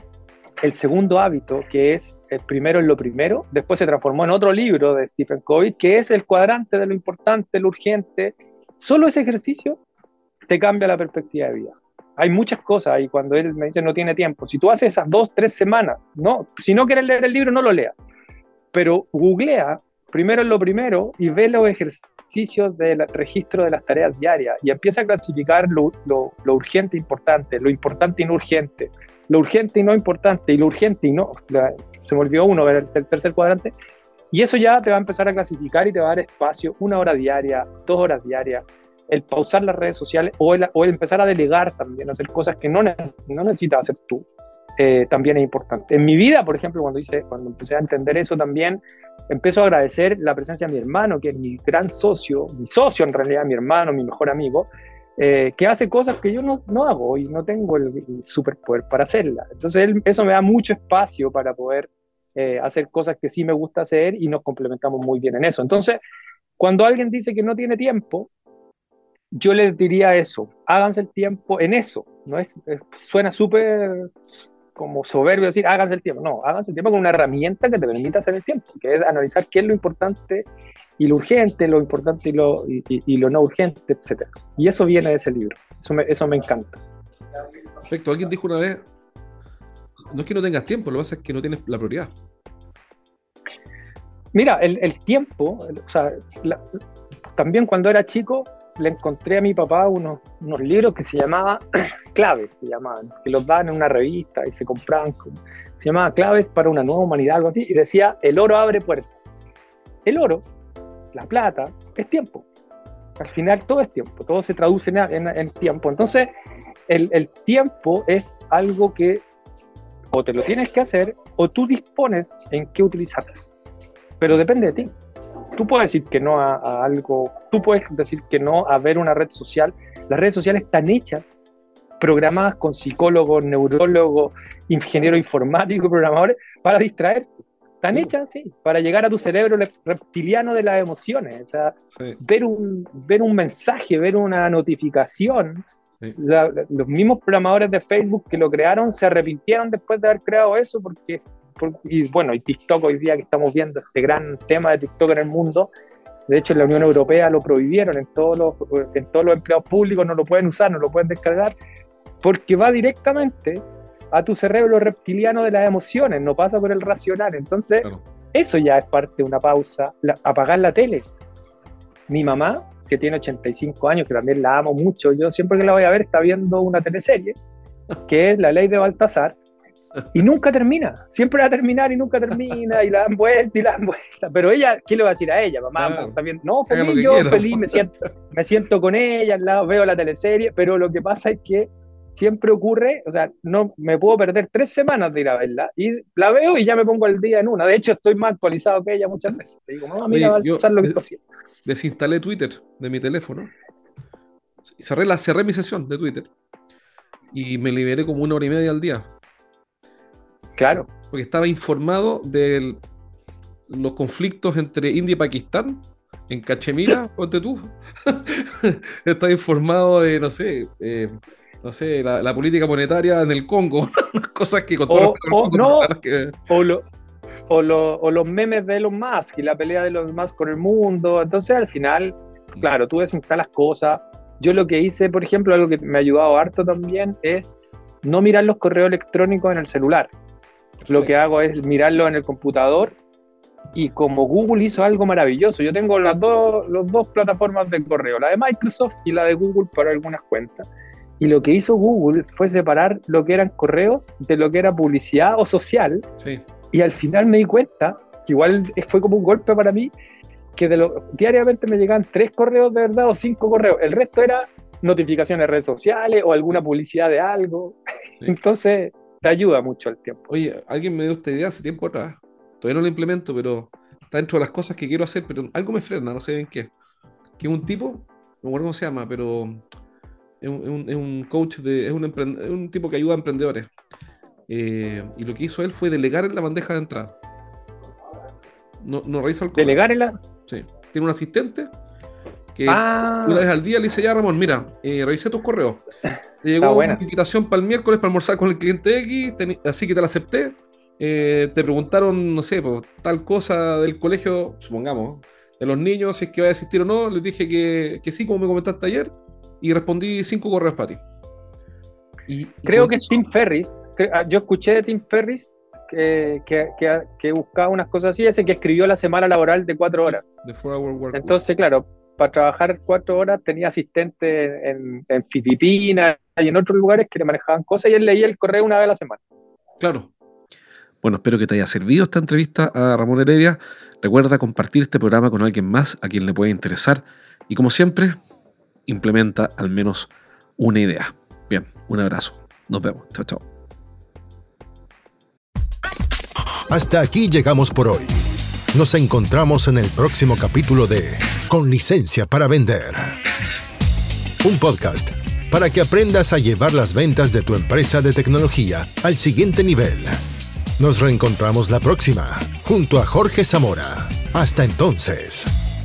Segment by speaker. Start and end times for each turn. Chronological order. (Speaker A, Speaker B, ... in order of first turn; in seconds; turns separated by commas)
Speaker A: 0.6-9.8, Speaker A: 10.5-17.9, Speaker A: 18.7-33.7, Speaker A: 34.3-44.3, Speaker A: 44.8-66.0, Speaker A: 66.6-68.3, Speaker A: 69.3-80.5, Speaker A: 81.0-86.8, Speaker B: 87.9-88.8, Speaker B: 90.1-92.1, Speaker A: 94.3-96.8, Speaker A: 97.4-109.2, Speaker A: 110.1-110.5, Speaker A: 111.1-112.5, Speaker A: 113.2-116.3, Speaker A: 116.9-119.2, Speaker A: 120.1-123.3, Speaker A: 124.2-124.9, Speaker A: 125.5-131.3, Speaker A: 132.0-145.7, Speaker B: 141.9-142.2, Speaker A: 146.2-155.7, Speaker A: 156.3-161.6, Speaker A: 162.2-171.1, Speaker A: 172.1-177.4, Speaker A: 178.1-179.4, Speaker A: 180.1-201.2, Speaker B: 185.7-186.2, Speaker B: 186.7-187.8, Speaker B: 200.1-201.0, Speaker B: 201.7-203.5, Speaker B: 204.7-206.3, Speaker B: 207.3-209.1, Speaker A: 210.6-210.9, Speaker B: 211.1-212.8, Speaker B: 213.7-226.4, Speaker A: 224.9-225.9, Speaker A: 226.5-226.8, Speaker A: 227.5-240.1, Speaker B: 240.8-241.1, Speaker A: 240.9-243.0, Speaker A: 243.8-250.7, Speaker A: 251.2-256.1, Speaker B: 256.2-256.4, Speaker A: 256.7-259.9, Speaker A: 260.6-267.8, Speaker A: 268.3-270.3, Speaker B: 270.3-276.7, Speaker B: 277.4-279.6, Speaker B: 280.4-283.7, Speaker B: 284.5-287.1, Speaker B: 288.8-289.8, Speaker A: 289.6-290.2, Speaker B: 290.5-291.7, Speaker B: 292.6-295.8, Speaker A: 292.7-293.4, Speaker B: 296.4-311.0, Speaker A: 296.6-297.0, Speaker B: 312.3-313.2, Speaker A: 312.7-320.3, Speaker B: 320.1-321.4, Speaker A: 321.1-329.2, Speaker B: 329.8-330.1, Speaker B: 331.0-338.2, Speaker B: 338.9-343.4, Speaker C: 346.7-348.2, Speaker C: 348.7-353.2, Speaker C: 354.4-360.2, Speaker C: 360.8-365.5